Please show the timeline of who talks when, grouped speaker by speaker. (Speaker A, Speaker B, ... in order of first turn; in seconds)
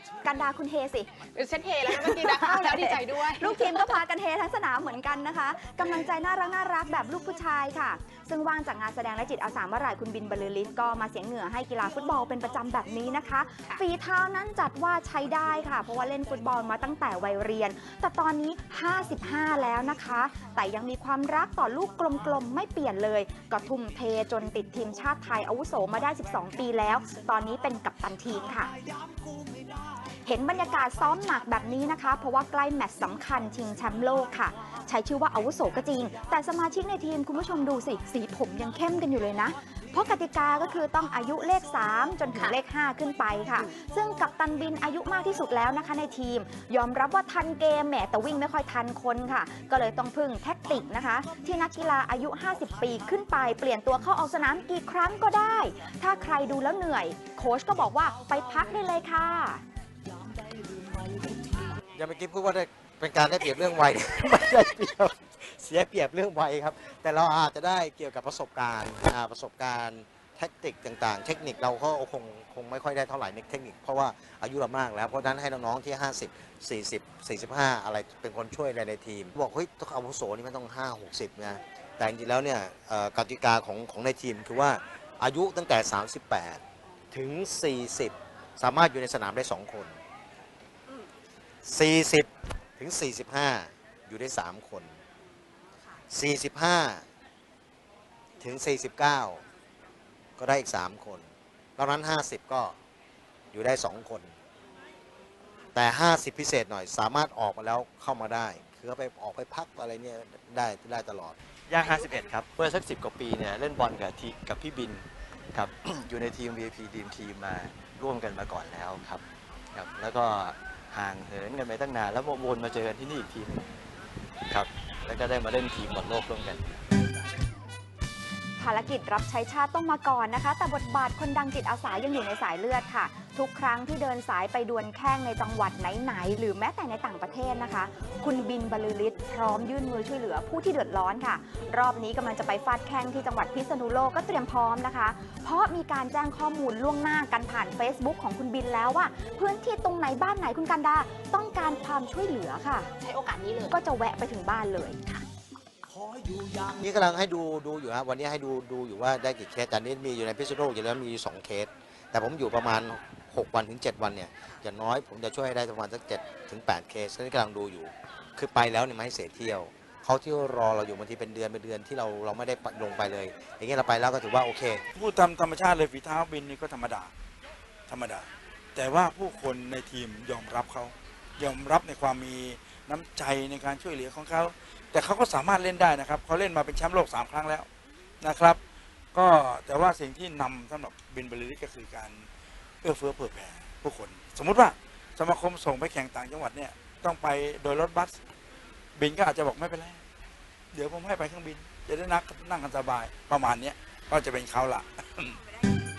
Speaker A: 0.2-1.3, 1.9-28.7, 30.2-59.6, 128.6-152.9, 153.7-155.0
Speaker B: 1.3-3.9, 153.0-153.8
Speaker C: 62.0-86.6, 87.1-90.0, 91.7-94.9, 96.1-97.1, 98.4-99.4, 100.4-102.8, 103.5-104.3, 105.7-111.3, 156.8-174.8
Speaker D: 111.7-123.7, 124.5-126.7
Speaker E: 174.9-177.1, 177.9-187.7, 188.2-188.6, 189.1-192.2, 192.8-198.2, 199.0-200.0, 200.7-205.4